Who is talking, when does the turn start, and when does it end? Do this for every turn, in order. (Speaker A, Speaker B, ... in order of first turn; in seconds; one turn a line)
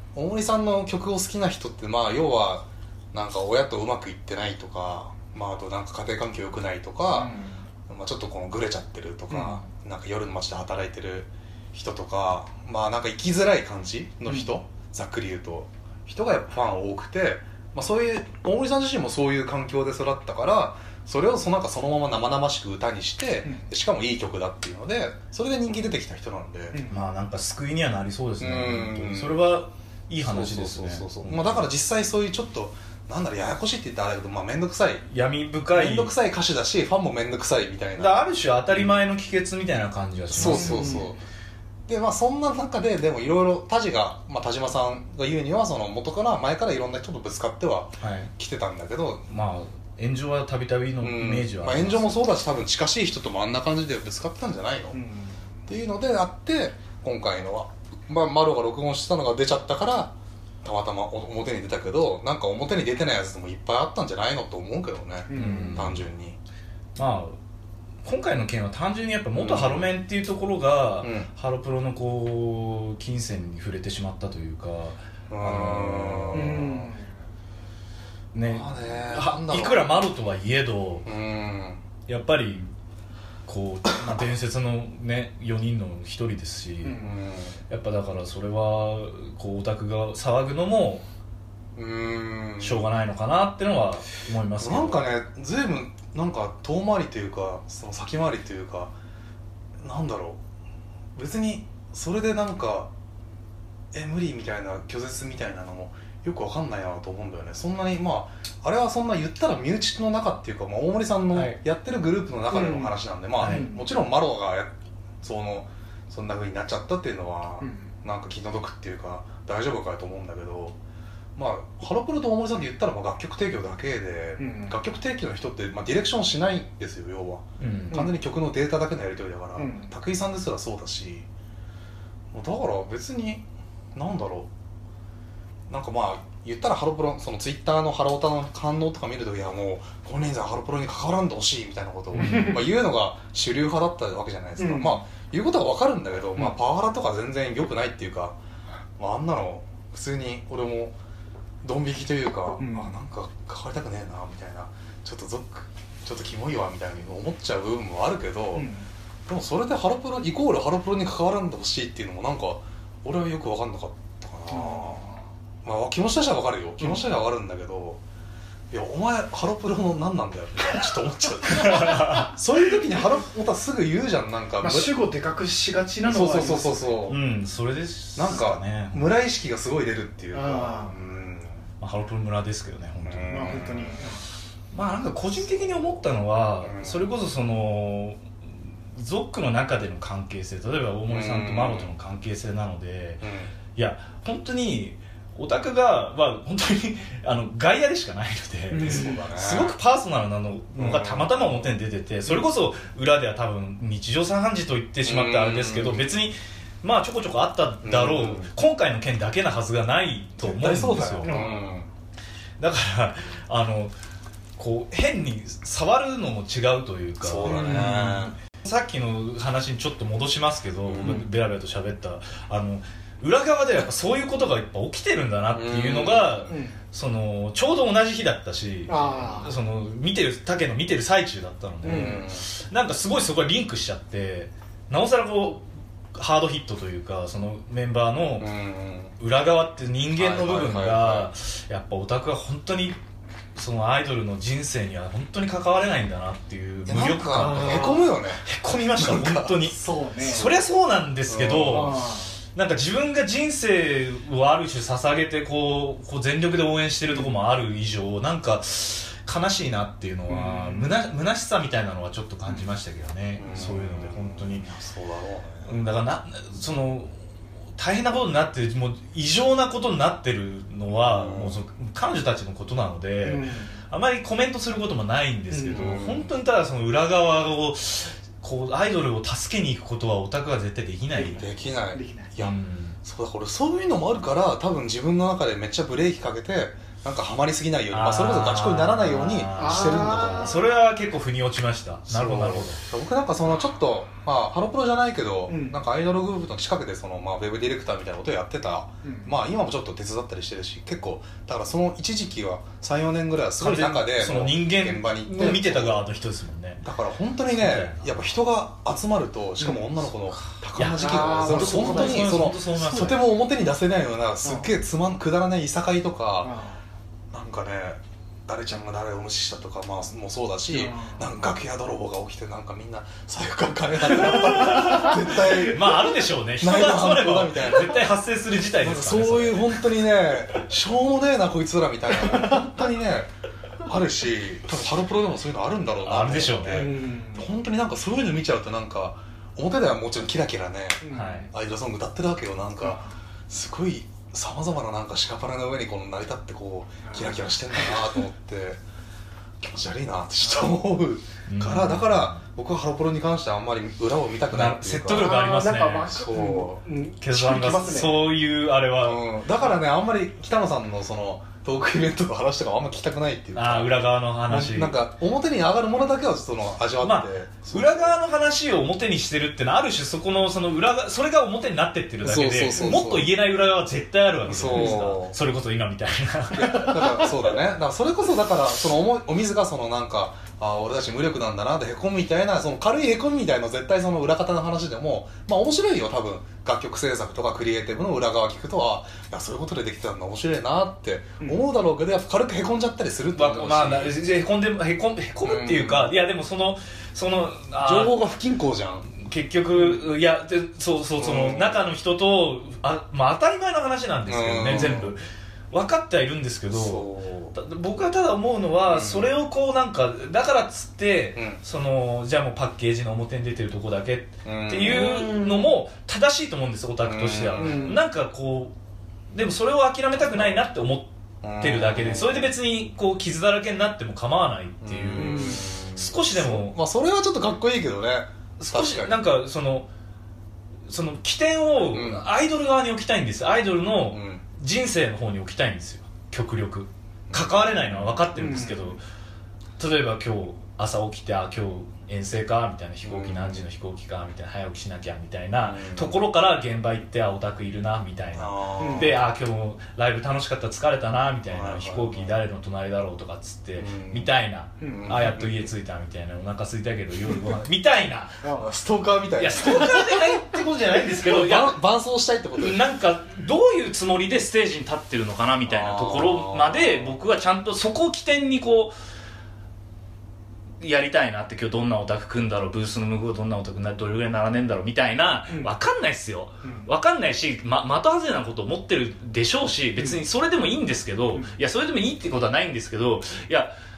Speaker A: 0.1-7.3
Speaker B: 7.1-7.6
Speaker A: 7.9-26.8
Speaker B: 9.3-9.6
Speaker B: 26.7-27.0
Speaker C: 26.9-31.6
Speaker A: 28.4-29.4
Speaker A: 30.2-35.0
Speaker C: 35.1-36.1
Speaker A: 35.7-38.9
Speaker C: 38.0-40.9
Speaker A: 40.3-41.2
Speaker B: 40.4-41.1
Speaker A: 41.9-49.3
Speaker C: 48.0-48.3
Speaker C: 49.3-52.1
Speaker A: 51.0-55.0
Speaker B: 54.9-55.4
Speaker A: 55.7-66.4
Speaker B: 65.3-65.8
Speaker C: 65.3-66.0
Speaker C: 67.0-67.4
Speaker C: 68.0-76.5
Speaker A: 69.3-69.8
Speaker A: 71.0-71.3
Speaker A: 75.3-76.9
Speaker B: 76.3-77.1
Speaker C: 78.3-81.1
Speaker A: 78.4-80.0
Speaker A: 81.0-81.8
Speaker C: 82.1-82.7
Speaker C: 83.5-87.0
Speaker B: 86.8-87.2
Speaker A: 87.0-87.6
Speaker C: 87.7-91.0
Speaker A: 91.8-92.8
Speaker C: 92.6-95.0
Speaker A: 94.6-98.9
Speaker A: 99.8-100.4
Speaker A: 101.2-102.9
Speaker A: 103.9-120.8
Speaker C: 111.3-111.6
Speaker B: 112.5-113.9
Speaker C: 113.4-113.7
Speaker B: 117.6-117.9
Speaker A: 121.3-131.3
Speaker B: 124.4-124.8
Speaker C: 127.6-128.0
Speaker B: 129.6-129.9
Speaker A: 132.3-134.5
Speaker A: 135.7-148.4
Speaker C: 142.2-142.5
Speaker B: 142.2-142.7
Speaker B: 144.6-145.0
Speaker A: 149.0-150.9
Speaker A: 151.6-158.7
Speaker B: 152.6-152.9
Speaker B: 158.5-158.9
Speaker A: 159.3-165.1
Speaker B: 164.5-165.2
Speaker A: 165.6-168.0
Speaker A: 168.7-174.9
Speaker C: 171.6-172.3
Speaker B: 174.6-176.9
Speaker A: 176.0-177.2
Speaker C: 177.1-179.1
Speaker A: 178.1-181.6
Speaker B: 180.3-181.0
Speaker C: 181.8-183.5
Speaker A: 183.0-184.0
Speaker B: 183.3-184.2
Speaker C: 184.7-188.2
Speaker A: 186.6-187.1
Speaker C: 188.9-211.4
Speaker A: 191.1-191.9
Speaker A: 193.2-193.5
Speaker B: 198.7-199.2
Speaker A: 198.8-199.7
Speaker A: 200.7-201.8
Speaker A: 205.0-206.1
Speaker A: 207.8-208.5
Speaker A: 210.4-211.9
Speaker B: 211.2-211.6
Speaker C: 212.6-213.9
Speaker C: 214.6-238.5
Speaker A: 217.2-218.3
Speaker B: 217.4-218.2
Speaker A: 220.8-221.2
Speaker A: 225.5-226.5
Speaker B: 226.5-226.8
Speaker B: 228.9-229.6
Speaker B: 231.8-232.2
Speaker A: 231.8-232.5
Speaker A: 238.4-239.1
Speaker C: 239.2-243.0
Speaker A: 240.2-241.3
Speaker C: 243.6-264.7
Speaker A: 246.9-249.7
Speaker B: 247.4-248.1
Speaker B: 249.7-250.5
Speaker A: 251.3-251.9
Speaker B: 251.7-252.3
Speaker B: 260.3-260.9
Speaker A: 263.4-265.7
Speaker C: 265.6-267.1
Speaker C: 267.8-281.5
Speaker A: 271.0-271.6
Speaker B: 273.2-273.7
Speaker B: 275.5-276.0
Speaker A: 275.7-276.3
Speaker B: 281.1-282.3
Speaker A: 281.3-290.6
Speaker C: 282.4-283.0
Speaker C: 287.9-292.8
Speaker B: 289.6-290.6
Speaker A: 292.1-306.1
Speaker B: 295.5-295.8
Speaker B: 299.0-299.3
Speaker C: 303.6-306.8
Speaker A: 306.8-316.5
Speaker C: 307.5-308.3
Speaker C: 310.8-313.3
Speaker B: 310.8-312.5
Speaker B: 314.4-314.7
Speaker B: 316.4-316.8
Speaker A: 317.3-328.0
Speaker B: 320.7-321.3
Speaker C: 324.2-329.8
Speaker A: 328.8-333.3
Speaker A: 333.9-348.8
Speaker C: 336.0-336.9
Speaker B: 336.7-337.5
Speaker B: 341.0-341.5
Speaker C: 341.1-341.5
Speaker B: 347.1-347.4
Speaker A: 349.6-355.3
Speaker C: 351.5-352.4
Speaker C: 354.5-356.2
Speaker B: 355.1-358.3
Speaker A: 356.1-356.8
Speaker C: 357.2-359.3
Speaker A: 359.0-368.2
Speaker C: 363.5-365.0
Speaker C: 367.0-377.2
Speaker A: 372.2-373.3
Speaker A: 374.5-375.4
Speaker B: 374.7-375.0
Speaker A: 376.5-394.2
Speaker C: 393.3-398.2
Speaker A: 395.4-396.1
Speaker A: 397.8-399.1
Speaker C: 399.1-418.7
Speaker B: 399.7-400.0
Speaker A: 401.2-401.8
Speaker A: 404.3-405.1
Speaker A: 406.7-407.6
Speaker A: 408.9-409.3
Speaker A: 411.4-411.6
Speaker A: 414.4-415.2
Speaker B: 414.9-415.7
Speaker A: 417.0-418.0
Speaker B: 417.6-418.0
Speaker C: 419.3-426.8
Speaker A: 421.4-422.5
Speaker A: 424.8-429.1
Speaker B: 425.2-425.6
Speaker C: 428.6-429.9
Speaker C: 430.9-439.0
Speaker A: 431.9-432.2
Speaker A: 434.1-434.4
Speaker A: 437.3-438.2
Speaker B: 438.4-439.0
Speaker C: 439.8-458.4
Speaker A: 443.0-443.6
Speaker A: 445.6-446.1
Speaker A: 448.3-449.2
Speaker B: 448.8-449.2
Speaker A: 451.5-452.4
Speaker A: 453.8-454.3
Speaker B: 454.8-455.2
Speaker A: 454.9-455.6
Speaker B: 458.4-458.7
Speaker A: 458.5-460.2
Speaker C: 459.4-461.8
Speaker A: 461.2-462.8
Speaker C: 462.6-468.9
Speaker A: 465.6-467.1
Speaker C: 470.8-483.7
Speaker B: 476.6-476.9